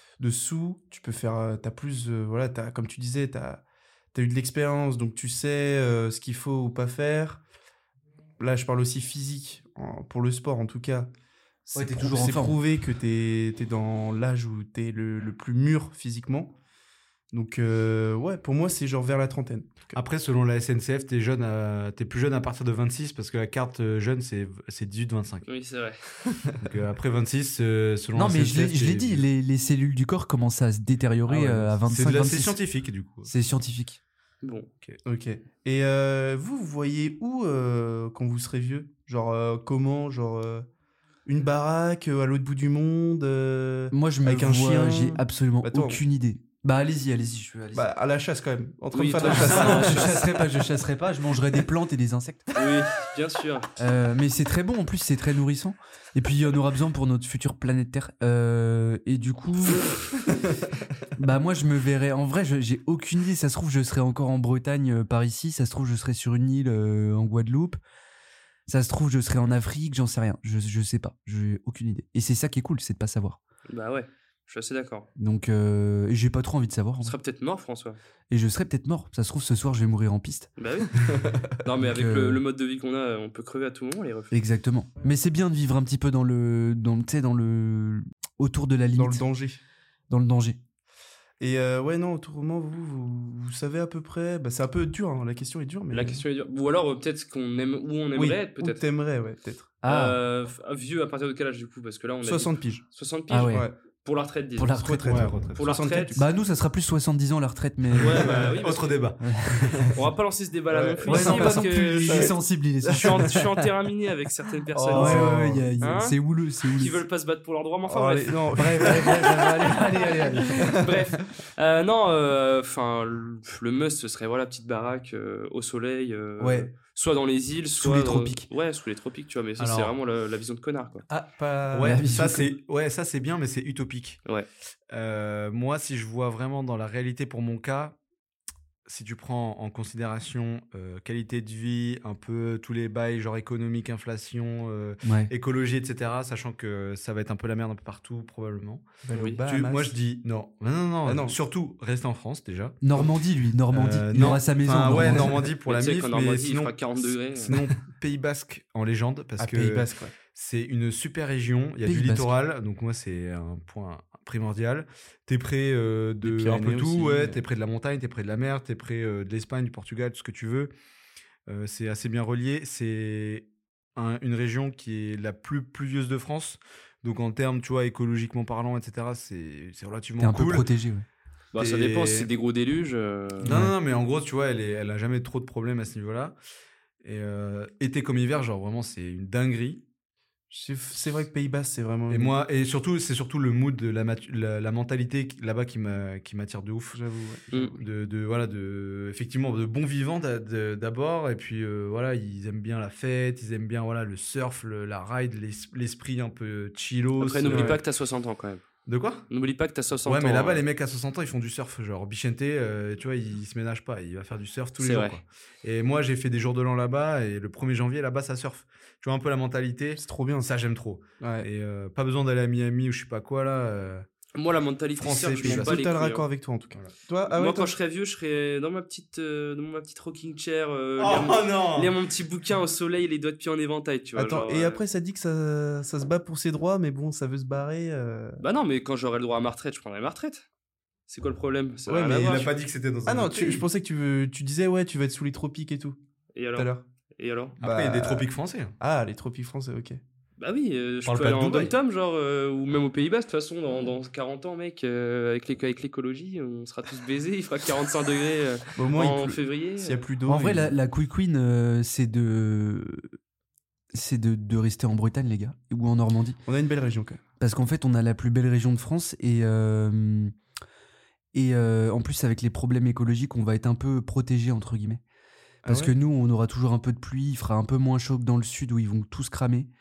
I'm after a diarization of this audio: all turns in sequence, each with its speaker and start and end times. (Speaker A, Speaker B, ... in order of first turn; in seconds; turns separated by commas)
Speaker A: 0.2-3.6, Speaker A: 4.1-7.4, Speaker A: 8.4-11.1, Speaker A: 11.7-16.5, Speaker B: 11.7-12.6, Speaker A: 17.3-20.0, Speaker C: 19.9-25.5, Speaker D: 25.5-26.1, Speaker C: 26.6-29.2, Speaker B: 28.1-32.6, Speaker C: 31.3-33.3, Speaker B: 33.2-34.0, Speaker D: 34.4-34.7, Speaker A: 35.0-40.7, Speaker A: 41.2-46.0, Speaker B: 43.9-47.9, Speaker A: 47.7-50.2, Speaker D: 48.9-50.3, Speaker B: 49.2-52.5, Speaker D: 52.5-53.7, Speaker B: 53.8-59.9, Speaker B: 61.1-67.8, Speaker B: 68.7-73.4, Speaker D: 73.7-75.1, Speaker B: 75.2-77.2, Speaker D: 77.0-78.0, Speaker B: 78.3-80.5, Speaker D: 80.6-84.3, Speaker A: 81.0-81.4, Speaker B: 81.8-82.4, Speaker B: 84.3-89.2, Speaker A: 88.9-89.6, Speaker B: 90.1-90.6, Speaker A: 91.4-96.2, Speaker D: 95.9-98.8, Speaker A: 98.1-99.7, Speaker B: 99.8-100.2, Speaker D: 99.8-104.8, Speaker A: 102.2-102.8, Speaker B: 103.3-103.7, Speaker A: 103.5-103.8, Speaker B: 104.6-105.3, Speaker A: 104.8-106.3, Speaker C: 105.1-105.6, Speaker D: 105.5-106.2, Speaker B: 106.1-108.3, Speaker D: 108.0-109.0, Speaker A: 108.2-108.5, Speaker C: 108.2-109.9, Speaker B: 109.2-109.9, Speaker D: 109.9-112.3, Speaker A: 110.7-113.4, Speaker B: 111.0-113.5, Speaker D: 112.9-116.2, Speaker A: 114.7-115.7, Speaker B: 114.9-117.0, Speaker D: 116.7-119.0, Speaker A: 117.8-121.0, Speaker B: 118.5-120.7, Speaker D: 119.7-131.0, Speaker B: 126.4-126.7, Speaker B: 127.8-128.5, Speaker C: 129.6-129.9, Speaker C: 131.1-134.2, Speaker A: 131.6-131.9, Speaker B: 131.8-132.5, Speaker C: 134.9-138.0, Speaker C: 138.8-153.1, Speaker B: 145.0-145.3, Speaker A: 149.0-149.9, Speaker D: 149.1-149.4, Speaker A: 151.0-151.4, Speaker B: 152.8-155.5, Speaker C: 153.7-170.7, Speaker D: 155.6-157.6, Speaker A: 159.4-160.1, Speaker B: 161.8-162.3, Speaker A: 166.2-167.4, Speaker C: 171.5-180.7, Speaker B: 180.2-181.1, Speaker D: 181.5-183.6, Speaker C: 181.6-182.3, Speaker C: 183.4-186.3, Speaker B: 183.4-183.7, Speaker C: 187.0-189.8, Speaker A: 190.5-192.3, Speaker C: 192.1-197.0, Speaker A: 196.9-197.8, Speaker C: 197.6-207.8, Speaker D: 207.2-208.6, Speaker A: 207.5-207.8, Speaker C: 208.8-209.3, Speaker D: 209.3-210.6, Speaker C: 210.0-224.1, Speaker D: 214.8-215.2, Speaker A: 219.9-220.5, Speaker A: 221.2-221.5, Speaker D: 224.3-226.2, Speaker C: 225.0-225.8, Speaker A: 225.4-227.7, Speaker D: 227.3-234.8, Speaker C: 231.0-231.9, Speaker A: 234.2-238.4, Speaker D: 238.4-240.4, Speaker D: 241.1-242.5, Speaker A: 241.9-242.4, Speaker C: 242.1-243.7, Speaker A: 243.1-246.0, Speaker D: 246.3-247.6, Speaker A: 246.6-246.8, Speaker A: 247.6-248.3, Speaker C: 247.6-248.8, Speaker A: 248.8-250.0, Speaker D: 250.4-260.0, Speaker C: 251.0-251.8, Speaker A: 258.8-260.7, Speaker B: 260.2-263.1, Speaker B: 263.9-266.4, Speaker A: 266.4-267.2, Speaker B: 267.4-270.3, Speaker B: 271.3-275.0, Speaker A: 275.6-275.9, Speaker B: 275.6-279.7